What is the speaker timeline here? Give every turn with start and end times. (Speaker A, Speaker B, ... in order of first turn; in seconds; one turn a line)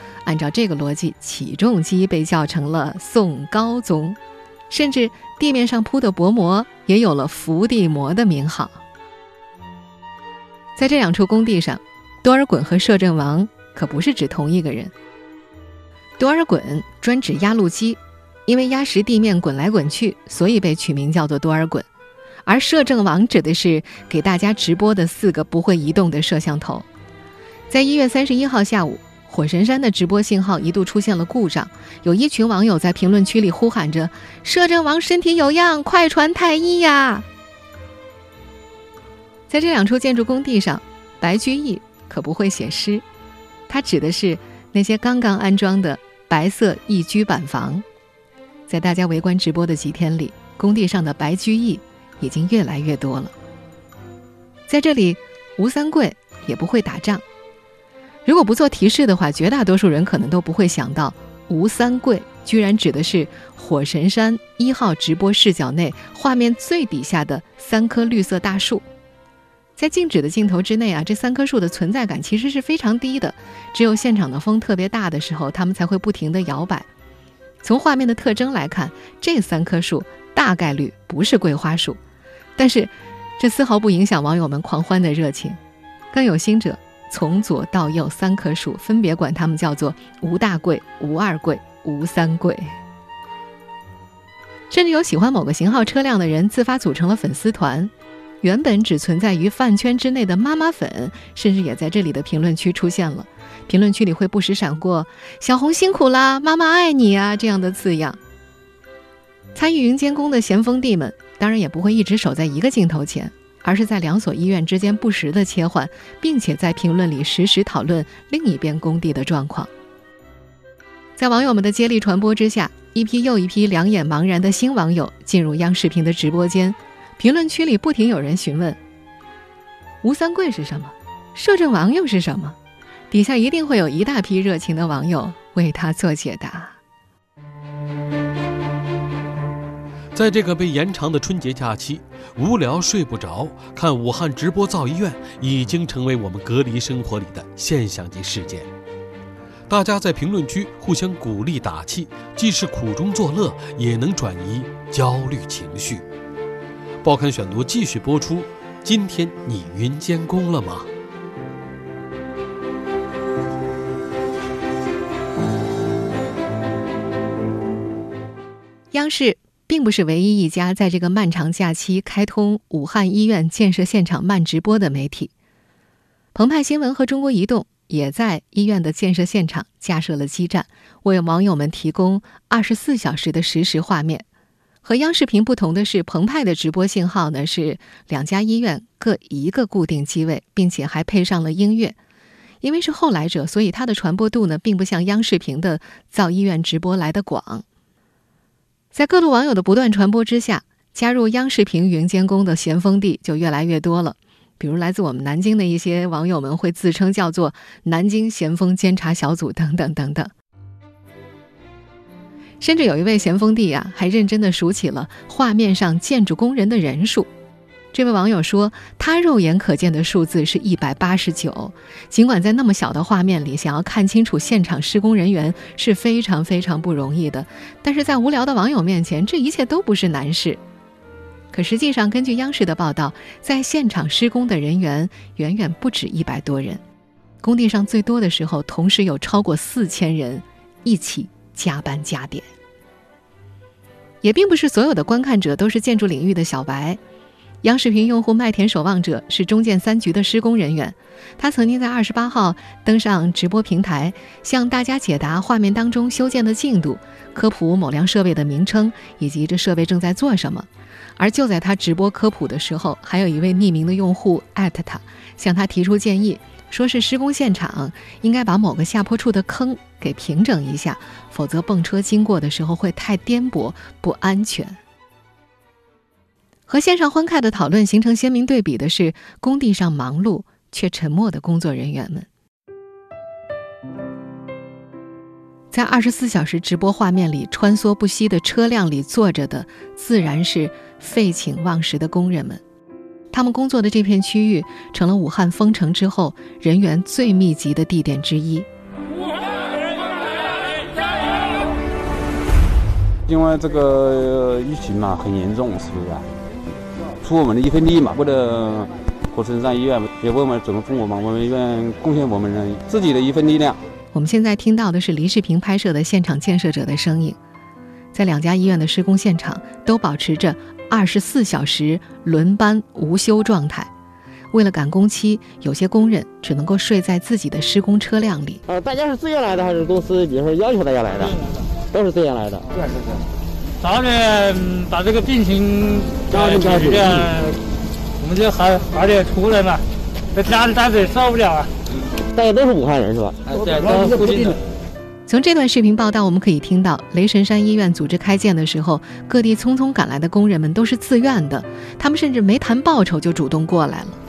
Speaker A: 0.2-4.2
Speaker A: 4.7-8.8
Speaker A: 10.8-14.9
Speaker A: 16.2-21.9
Speaker A: 22.4-26.9
Speaker A: 27.7-37.2
Speaker A: 39.5-43.0
Speaker A: 43.7-47.8
Speaker A: 48.7-53.3
Speaker A: 54.7-57.2
Speaker A: 58.2-68.8
Speaker A: 69.8-76.9
Speaker A: 77.6-82.0
Speaker A: 82.6-85.6
Speaker A: 86.1-92.7
Speaker A: 94.7-97.9
Speaker A: 98.4-108.2
Speaker A: 109.5-119.7
Speaker A: 121.2-128.8
Speaker A: 130.0-132.6
Speaker A: 133.1-136.8
Speaker B: 140.1-148.7
Speaker B: 149.7-156.0
Speaker B: 157.0-160.9
Speaker A: 168.9-175.3
Speaker A: 176.3-184.2
Speaker A: 184.8-191.9
Speaker A: 192.6-197.6
Speaker A: 198.9-210.3
Speaker A: 212.6-217.3
Speaker A: 217.9-230.6
Speaker A: 231.5-236.8
Speaker A: 237.4-242.4
Speaker A: 244.2-247.0
Speaker A: 247.6-274.8
Speaker A: 276.7-282.3
Speaker A: 285.7-292.6
Speaker A: 293.3-298.7
Speaker C: 303.3-306.3
Speaker C: 307.2-313.8
Speaker A: 314.1-317.4
Speaker A: 318.1-323.9
Speaker A: 324.5-328.6
Speaker D: 328.7-331.4
Speaker E: 331.3-331.6
Speaker D: 331.9-332.7
Speaker E: 333.8-337.6
Speaker D: 336.3-337.3
Speaker E: 338.2-339.8
Speaker E: 340.3-341.7
Speaker D: 342.3-344.6
Speaker E: 343.5-344.6
Speaker A: 345.3-354.2